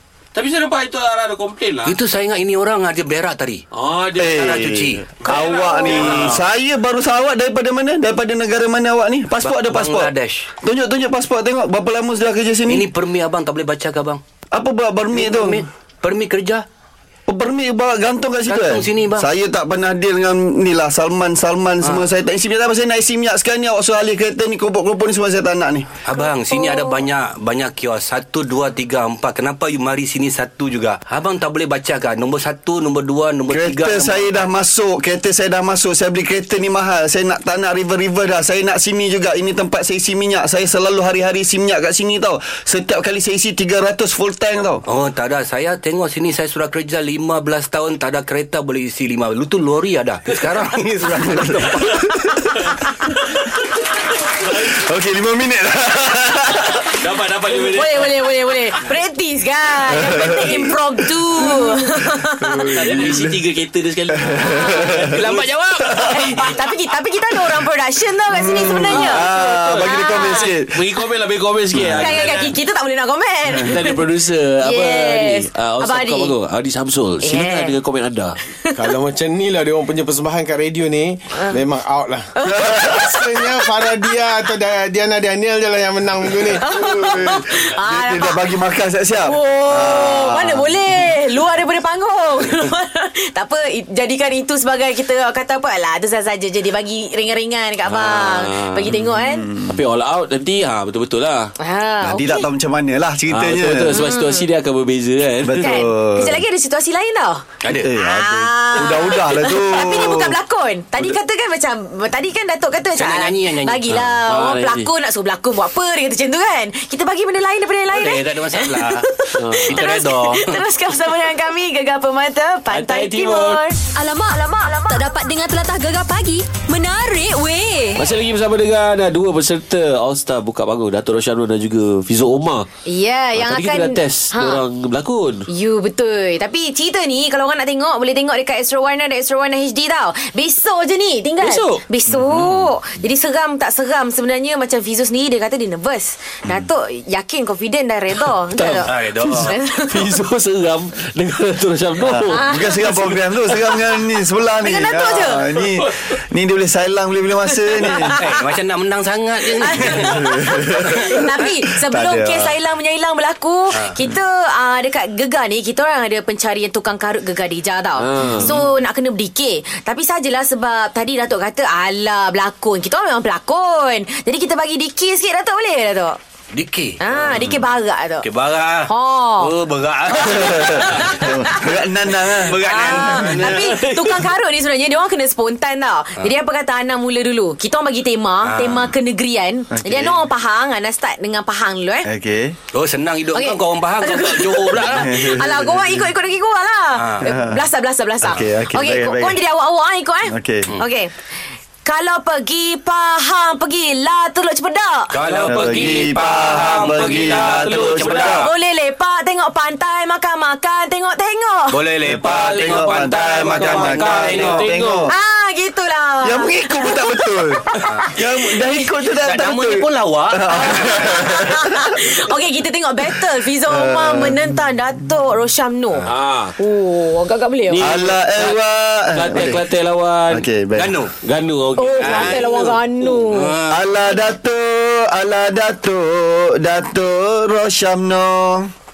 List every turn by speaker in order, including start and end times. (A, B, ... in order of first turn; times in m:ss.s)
0:00.3-0:02.0 A
0:01.8-0:03.6 B
0:03.7-0:04.6 A
0:04.2-0:12.9 C
0:04.2-0:05.2 B
0:05.2-0:06.4 A
0:05.5-0:06.0 D
0:09.4-0:10.5 B
0:12.7-0:14.2 B
0:14.5-0:15.6 C
0:15.1-0:16.6 B
0:17.3-0:25.9 C
0:18.5-0:19.3 B
0:26.0-0:34.4 B
0:26.5-0:27.0 D
0:33.5-0:44.8 C
0:44.8-0:52.0 B
0:51.0-0:52.4 C
0:52.1-0:52.7 D
0:54.4-0:54.8 A
0:54.5-0:56.9 C
0:56.9-0:58.5 A
0:57.5-1:03.0 D
0:59.9-1:03.4 C
1:02.7-1:06.5 A
1:04.1-1:05.3 C
1:04.4-1:04.9 D
1:05.1-1:06.0 B
1:06.0-1:10.5 D
1:08.3-1:10.8 C
1:08.7-1:12.5 A
1:11.7-1:12.1 C
1:11.9-1:14.0 D
1:13.6-1:18.4 A
1:14.6-1:16.3 D
1:17.2-1:17.8 D
1:18.8-1:27.3 E
1:21.3-1:21.6 D
1:22.4-1:24.1 D
1:22.4-1:23.2 C
1:26.6-1:28.4 D
1:26.7-1:30.8 C
1:29.2-1:39.5 D
1:37.8-1:39.0 A
1:39.2-1:39.7 C
1:39.6-1:41.5 A
1:41.6-1:42.5 D
1:42.0-1:44.0 C
1:43.3-1:45.8 A
1:43.9-1:44.5 D
1:45.4-1:46.4 C
1:45.6-1:47.4 D
1:47.6-1:47.9 B
1:47.7-1:50.4 C
1:48.0-2:03.8 D
1:53.0-1:53.9 B
1:53.9-1:54.9 A
1:57.9-1:59.1 B
1:59.3-1:59.8 A
1:59.6-2:00.6 B
2:02.7-2:03.6 A
2:03.9-2:08.1 F
2:04.3-2:05.1 D
2:08.0-2:12.6 A
2:12.9-2:14.6 D
2:13.4-2:15.5 A
2:15.5-2:28.9 D
2:21.4-2:21.8 A
2:28.4-2:33.8 A
2:28.9-2:29.5 B
2:29.4-2:30.1 D
2:32.0-2:38.1 C
2:32.3-2:33.1 D
2:34.6-2:35.4 D
2:35.6-2:36.1 A
2:37.5-2:38.4 D
2:38.0-2:40.2 B
2:39.6-2:56.2 D
2:39.8-2:42.6 C
2:48.0-2:48.6 A
2:56.5-2:57.0 B
2:57.0-2:58.3 D
2:58.2-3:01.3 B
2:58.8-2:59.5 D
3:00.2-3:01.6 D
3:00.3-3:02.9 C
3:02.3-3:03.7 B
3:02.6-3:12.1 D
3:02.9-3:04.3 A
3:08.4-3:08.9 B
3:09.7-3:10.2 C
3:12.0-3:12.6 C
3:12.7-3:15.2 B
3:13.3-3:21.1 D
3:14.9-3:16.1 C
3:17.0-3:17.2 B
3:17.2-3:17.6 C
3:18.2-3:19.4 C
3:20.3-3:20.7 C
3:21.8-3:25.1 D
3:25.1-3:28.5 B
3:25.2-3:28.5 A
3:25.5-3:28.4 C
3:28.4-3:31.8 D
3:31.7-3:34.7 B
3:32.1-3:35.1 C
3:32.2-3:35.1 A
3:35.1-3:38.9 D
3:36.2-3:42.0 C
3:39.2-3:41.2 B
3:40.5-3:46.0 D
3:43.6-3:44.4 C
3:46.1-3:46.6 A
3:46.6-3:48.0 D
3:47.7-3:48.6 A
3:47.8-3:49.6 C
3:49.1-3:50.5 A
3:50.3-3:51.0 C
3:50.8-3:51.1 B
3:51.2-3:53.4 A
3:51.8-3:53.5 D
3:52.0-3:53.8 B
3:53.7-3:58.7 C